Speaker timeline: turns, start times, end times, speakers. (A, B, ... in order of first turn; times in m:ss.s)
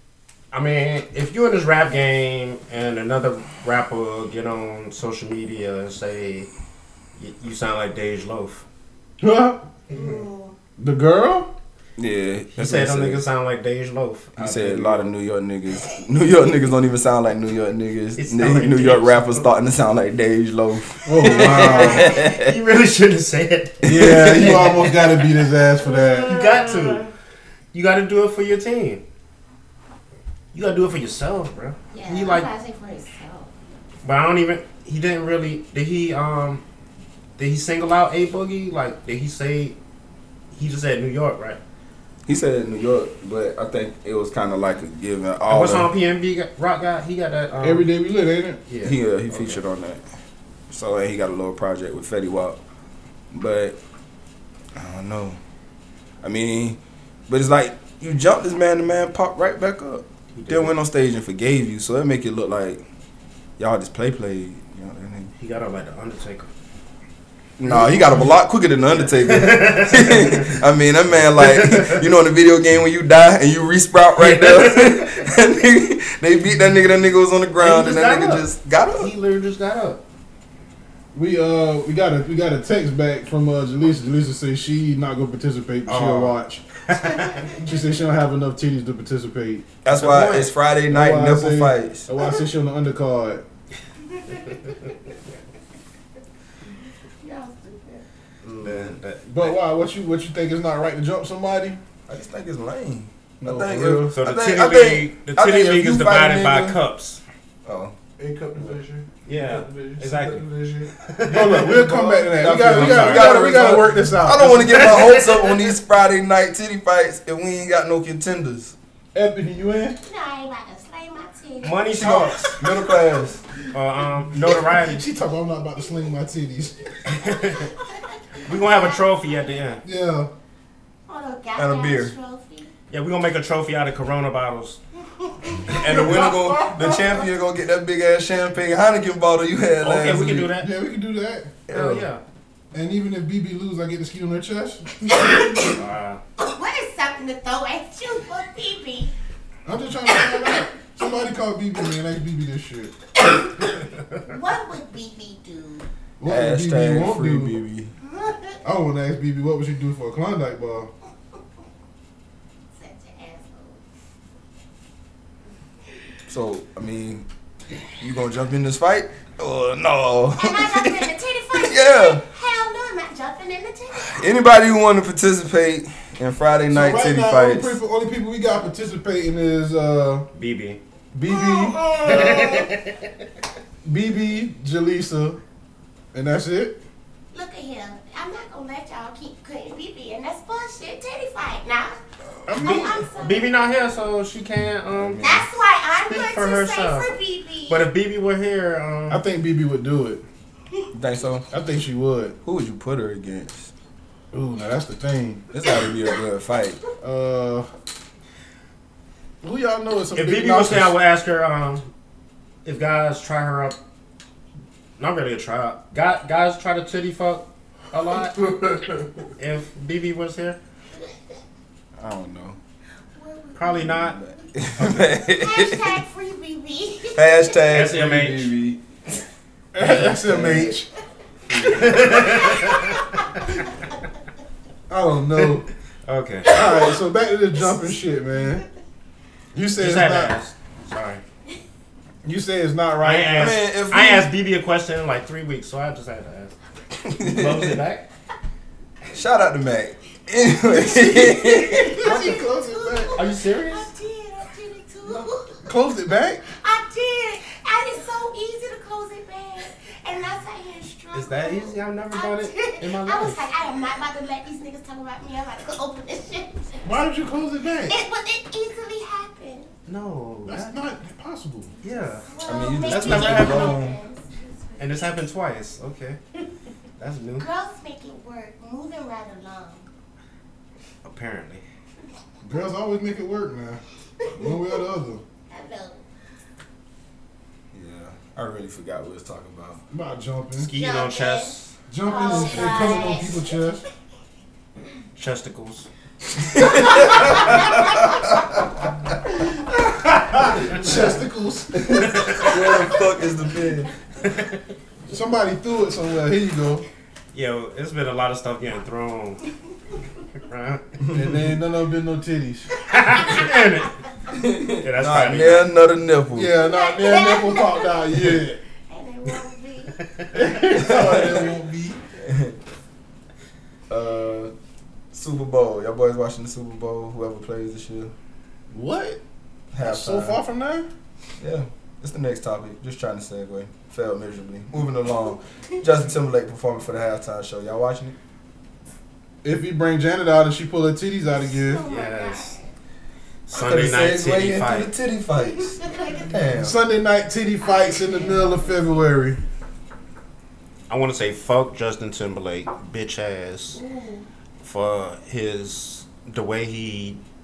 0:00.5-0:06.5 A
0:07.2-0:08.6 A
0:09.2-0:09.6 B
0:09.9-0:10.6 C
0:10.8-0:11.5 B
0:12.0-0:13.2 D
0:12.5-0:15.1 A
0:14.4-0:22.6 D
0:18.2-0:19.5 A
0:21.1-0:22.1 B
0:21.8-0:22.2 C
0:22.0-0:24.9 A
0:23.8-0:24.8 D
0:23.8-0:26.4 B
0:25.8-0:27.1 C
0:26.3-0:27.0 A
0:27.7-0:29.0 A
0:30.5-0:32.5 A
0:31.9-0:33.5 C
0:34.0-0:36.6 A
0:37.4-0:39.8 A
0:40.5-0:41.6 A
0:42.3-0:45.9 D
0:45.5-0:47.9 A
0:47.6-0:48.6 B
0:48.7-0:49.6 A
0:48.8-0:50.0 D
0:50.7-0:52.6 D
0:53.3-0:53.8 D
0:54.8-0:55.4 D
0:56.2-1:02.8 D
1:00.3-1:00.8 A
1:03.6-1:05.3 D
1:05.4-1:06.5 A
1:07.6-1:19.1 D
1:07.7-1:08.3 B
1:08.9-1:10.6 A
1:11.4-1:12.0 A
1:14.2-1:15.1 A
1:17.6-1:20.0 A
1:21.1-1:26.6 B
1:25.9-1:26.4 A
1:26.9-1:27.5 A
1:27.5-1:29.7 B
1:29.8-1:32.1 D
1:29.9-1:30.5 A
1:30.9-1:33.4 B
1:32.2-1:32.4 C
1:34.1-1:35.1 C
1:37.2-1:38.0 C
1:38.4-1:38.9 D
1:38.6-1:39.6 A
1:39.2-1:41.8 B
1:42.1-1:46.8 D
1:43.4-1:44.1 B
1:44.1-1:47.2 A
1:47.6-1:48.0 D
1:48.2-1:51.0 E
1:49.2-1:50.5 A
1:51.0-1:51.9 A
1:51.3-1:54.9 B
1:51.8-1:52.3 E
1:52.4-1:58.8 D
1:52.4-1:53.3 A
1:54.8-1:55.5 A
1:59.1-2:00.0 B
2:00.0-2:02.5 C
2:01.6-2:02.6 A
2:02.0-2:03.4 D
2:03.7-2:05.0 A
2:04.4-2:07.0 B
2:07.1-2:07.6 A
2:07.2-2:09.4 C
2:08.5-2:09.8 A
2:09.8-2:10.3 B
2:11.1-2:12.7 C
2:11.6-2:12.1 D
2:12.9-2:14.8 A
2:15.2-2:17.2 C
2:15.7-2:20.5 D
2:19.8-2:20.7 A
2:20.6-2:21.5 B
2:21.7-2:22.1 D
2:21.7-2:22.2 A
2:22.7-2:25.1 B
2:25.1-2:25.8 C
2:25.7-2:26.2 A
2:26.4-2:29.1 C
2:29.6-2:32.9 B
2:34.1-2:35.9 C
2:36.2-2:37.6 B
2:36.2-2:37.9 D
2:38.0-2:38.6 C
2:38.6-2:40.9 B
2:42.8-2:43.8 C
2:46.3-2:47.3 D
2:48.0-2:52.3 D
2:50.4-2:54.3 C
2:54.0-2:57.8 D
2:56.7-3:00.3 B
3:00.3-3:00.8 A
3:01.1-3:02.7 B
3:01.3-3:02.7 C
3:02.1-3:02.9 A
3:03.8-3:05.4 B
3:06.1-3:06.8 B
3:07.3-3:12.0 C
3:12.5-3:13.1 B
3:12.5-3:13.9 C
3:13.2-3:15.2 A
3:14.9-3:15.5 D
3:15.2-3:17.9 C
3:16.1-3:17.1 A
3:17.7-3:19.2 A
3:19.1-3:20.2 B
3:20.9-3:21.5 D
3:21.5-3:22.4 B
3:22.4-3:23.7 D
3:24.3-3:25.5 B
3:25.5-3:26.8 D
3:27.0-3:27.7 B
3:29.4-3:30.9 B
3:30.2-3:31.9 A
3:32.6-3:33.8 A
3:35.0-3:38.5 A
3:38.4-3:39.0 E
3:39.4-3:40.6 A
3:42.0-3:42.6 D
3:43.1-3:47.6 C
3:43.6-3:44.2 A
3:43.7-3:46.0 D
3:47.1-3:48.8 D
3:47.7-3:48.6 A
3:49.7-3:50.9 B
3:49.8-3:50.7 A
3:50.3-3:50.8 D
3:51.5-3:52.2 D
3:51.7-3:53.0 A
3:52.2-3:53.2 C
3:54.9-3:55.7 B
3:56.0-3:56.5 A
3:56.5-3:58.6 B
3:59.5-4:00.4 B
3:59.8-4:01.2 A
4:02.2-4:03.6 B
4:03.0-4:06.6 A
4:03.3-4:04.3 D
4:07.0-4:07.8 D
4:07.1-4:08.1 A
4:09.1-4:12.1 D
4:10.6-4:13.2 B
4:11.6-4:15.7 C
4:13.2-4:13.9 A
4:15.6-4:16.4 B
4:16.5-4:27.0 C
4:21.1-4:23.5 A
4:26.8-4:28.0 B
4:27.9-4:29.7 C
4:29.9-4:30.8 A
4:30.5-4:31.7 B
4:31.8-4:32.3 A
4:32.2-4:35.2 C
4:32.4-4:34.0 D
4:32.8-4:33.8 A
4:34.8-4:36.2 A
4:37.0-4:37.5 A
4:37.4-4:39.9 C
4:41.0-4:41.6 A
4:42.4-4:45.2 B
4:44.2-4:44.6 C
4:45.5-4:46.0 C
4:47.7-4:49.8 D
4:49.9-4:50.7 B
4:50.6-4:51.7 A
4:50.7-4:53.6 C
4:51.9-4:53.8 B
4:55.2-4:55.9 A
4:56.6-4:58.0 D
4:59.7-5:02.5 B
5:02.0-5:03.9 D
5:02.0-5:02.5 A
5:04.2-5:04.6 A
5:05.1-5:06.9 B
5:07.3-5:09.4 A
5:10.4-5:11.0 A
5:11.1-5:12.7 B
5:12.9-5:14.0 A
5:14.3-5:16.5 D
5:14.7-5:15.7 A
5:16.3-5:18.6 B
5:16.6-5:20.0 C
5:20.3-5:22.0 B
5:20.8-5:21.5 D
5:22.2-5:22.6 D
5:23.9-5:24.5 D
5:25.1-5:28.1 D
5:28.7-5:29.2 B
5:29.7-5:30.4 D
5:29.8-5:30.9 B
5:31.4-5:38.2 D
5:39.4-5:41.9 B
5:41.3-5:42.7 C
5:41.9-5:42.6 A
5:43.5-5:44.9 A
5:43.5-5:46.8 D
5:45.4-5:46.6 C
5:46.6-5:49.4 B
5:47.6-5:49.0 C
5:50.9-5:53.8 A
5:53.7-5:54.3 C
5:54.6-5:57.2 A